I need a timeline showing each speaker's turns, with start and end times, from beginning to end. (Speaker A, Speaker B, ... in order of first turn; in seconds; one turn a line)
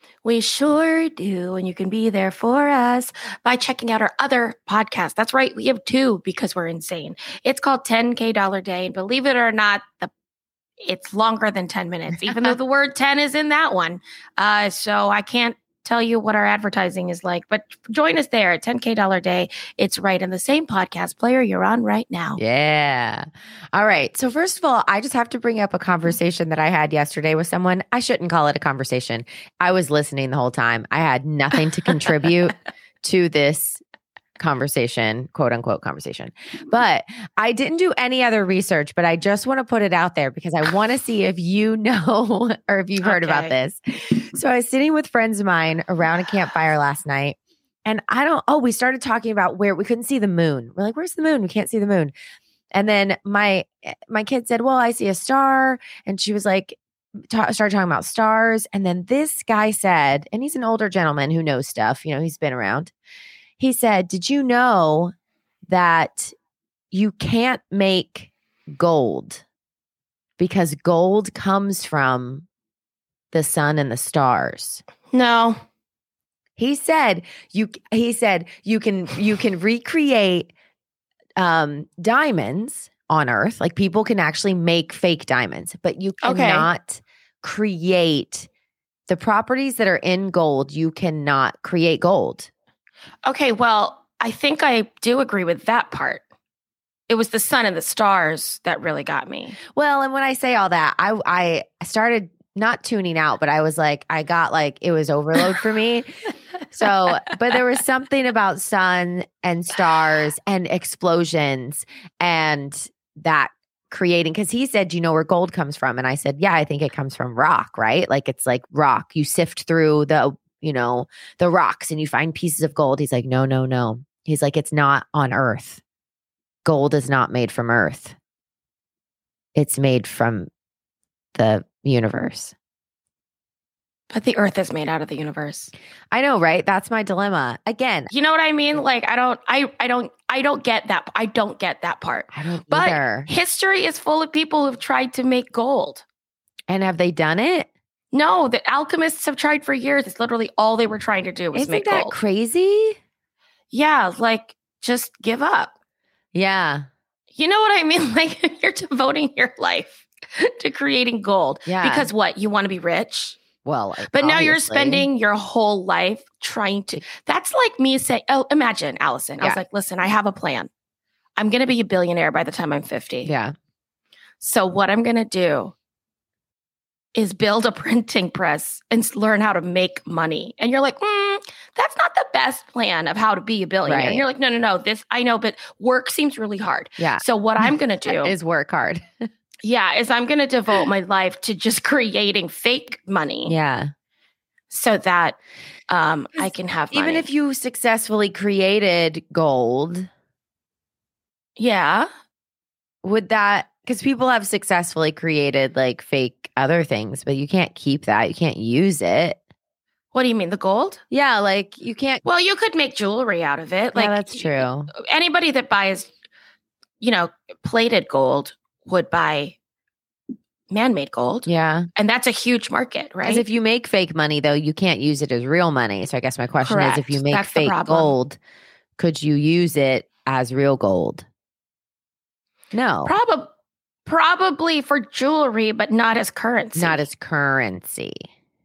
Speaker A: 0.2-10.1
Speaker A: 10.8-22.4
Speaker B: 12.1-12.5
Speaker B: 22.4-33.8
Speaker B: 34.4-52.1
Speaker A: 43.0-43.5
Speaker B: 52.7-56.8
Speaker B: 57.3-62.9
Speaker B: 63.6-65.1
Speaker B: 65.7-66.3
Speaker B: 66.9-69.4
Speaker B: 70.4-72.4
Speaker B: 73.3-74.8
Speaker A: 75.1-75.6
Speaker B: 76.6-80.5
Speaker B: 81.4-88.5
Speaker A: 86.2-86.7
Speaker B: 89.1-92.5
Speaker A: 93.2-96.2
Speaker A: 97.1-99.6
Speaker B: 99.7-106.1
Speaker B: 106.7-125.8
Speaker B: 126.6-128.2
Speaker B: 129.6-130.5
Speaker B: 131.3-132.5
Speaker A: 134.1-135.7
Speaker B: 136.1-138.1
Speaker A: 138.1-146.1
Speaker B: 142.3-143.3
Speaker B: 146.7-147.7
Speaker A: 148.1-152.2
Speaker B: 151.5-153.0
Speaker A: 153.7-155.7
Speaker B: 156.3-156.9
Speaker A: 157.3-163.4
Speaker B: 161.7-162.1
Speaker B: 163.6-165.1
Speaker A: 164.1-170.7
Speaker A: 171.4-173.3
Speaker B: 173.2-173.5
Speaker A: 174.4-175.7
Speaker A: 177.1-188.3
Speaker B: 183.8-184.3
Speaker B: 187.0-189.1
Speaker A: 189.6-193.6
Speaker B: 193.4-193.9
Speaker A: 194.7-195.4
Speaker A: 195.9-197.3
Speaker B: 196.9-200.1
Speaker A: 201.6-202.1
Speaker B: 203.0-209.4
Speaker A: 210.1-211.0
Speaker B: 211.1-212.2
Speaker A: 212.2-216.1
Speaker B: 213.9-214.9
Speaker A: 217.0-219.6
Speaker A: 220.7-223.5
Speaker B: 221.5-221.9
Speaker B: 223.2-228.4
Speaker A: 226.6-228.2
Speaker B: 229.0-231.3
Speaker B: 232.7-233.2
Speaker A: 233.1-233.5
Speaker A: 234.1-237.1
Speaker B: 236.8-238.2